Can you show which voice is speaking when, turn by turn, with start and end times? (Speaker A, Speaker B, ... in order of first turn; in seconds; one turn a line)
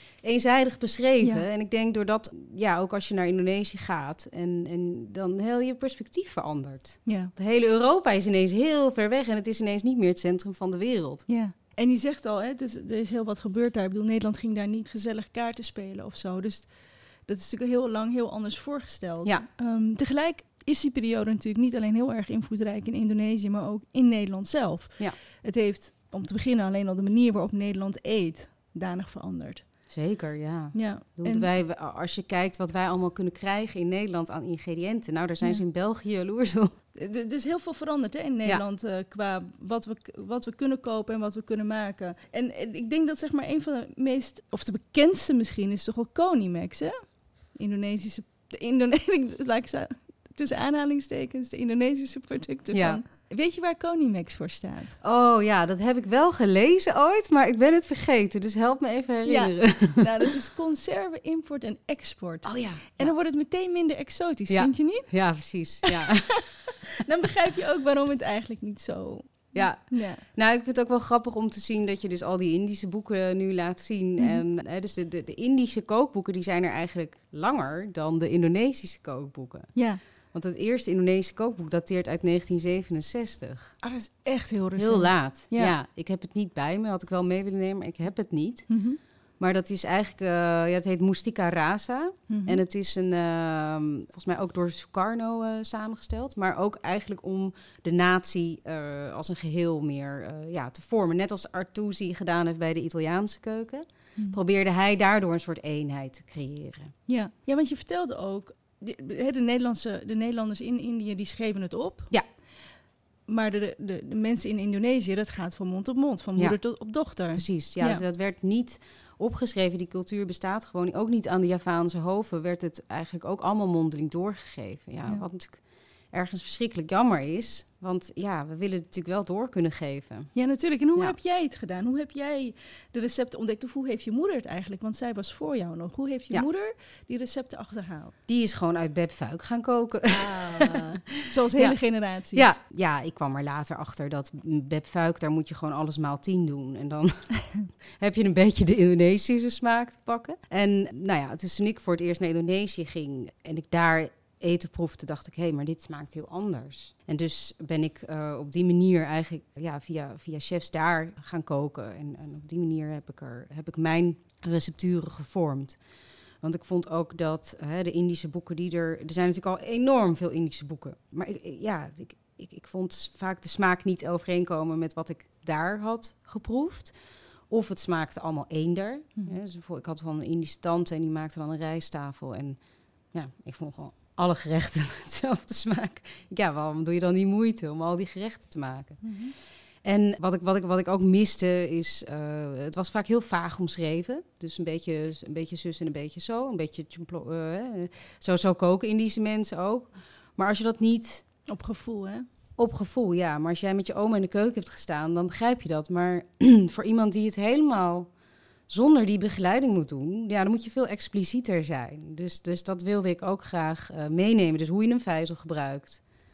Speaker A: 0.2-11.3
Speaker B: 7.0-7.3
Speaker B: 11.3-29.7
Speaker A: 29.9-36.7
Speaker B: 30.7-31.5
Speaker B: 36.9-55.0
Speaker A: 52.7-53.0
Speaker A: 55.0-60.3
Speaker B: 59.2-66.1
Speaker A: 62.4-63.1
Speaker A: 64.5-66.8
Speaker B: 66.9-70.2
Speaker A: 69.5-79.8
Speaker B: 79.7-80.0
Speaker A: 80.3-83.8
Speaker B: 83.8-85.7
Speaker A: 84.8-106.9
Speaker B: 88.7-89.0
Speaker B: 92.3-92.6
Speaker B: 107.1-112.3
Speaker B: 113.2-118.0
Speaker A: 117.3-130.3
Speaker B: 130.3-138.1
Speaker A: 138.3-165.8
Speaker B: 140.1-142.6
Speaker A: 166.4-201.2
Speaker B: 189.0-189.3
Speaker B: 201.5-202.2
Speaker A: 202.6-208.1
Speaker A: 208.7-216.0